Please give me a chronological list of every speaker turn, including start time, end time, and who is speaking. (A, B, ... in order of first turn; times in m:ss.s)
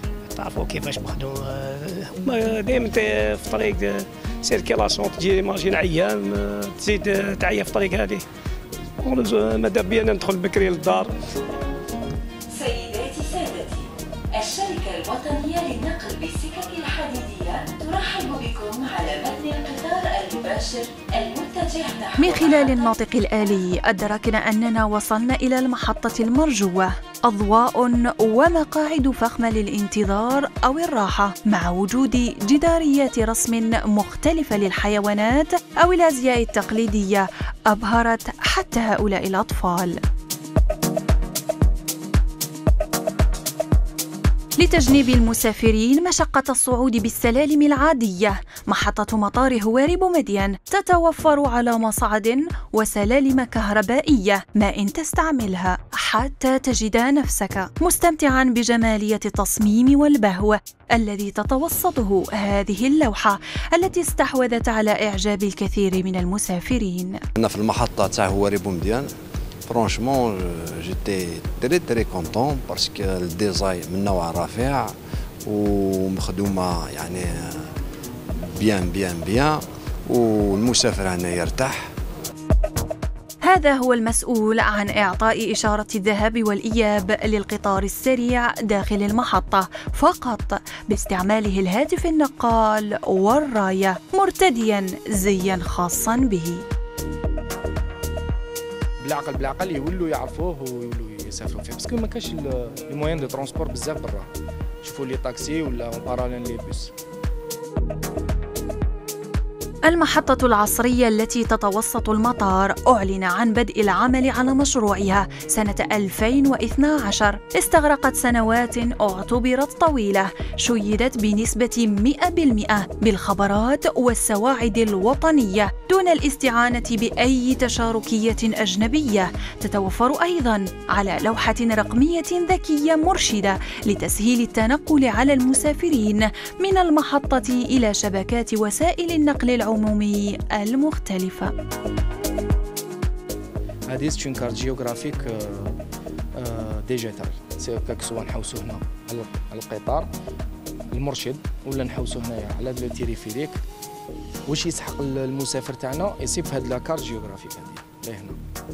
0:00.3-0:08.2 A
0:09.0-0:11.1 A
0:12.5-0:22.9 B
0:22.2-0:40.0 C
0:44.6-1:07.2 C
1:07.4-1:09.1 D
1:09.7-1:14.9 D
1:15.5-1:17.5 D
1:18.6-1:21.8 D
1:23.4-1:36.6 C
1:39.0-1:44.3 E
1:44.8-1:46.9 E
1:49.9-2:21.5 C
2:23.9-2:25.7 E
2:26.4-2:30.1 E
2:30.9-2:33.6 E
2:34.5-2:38.4 E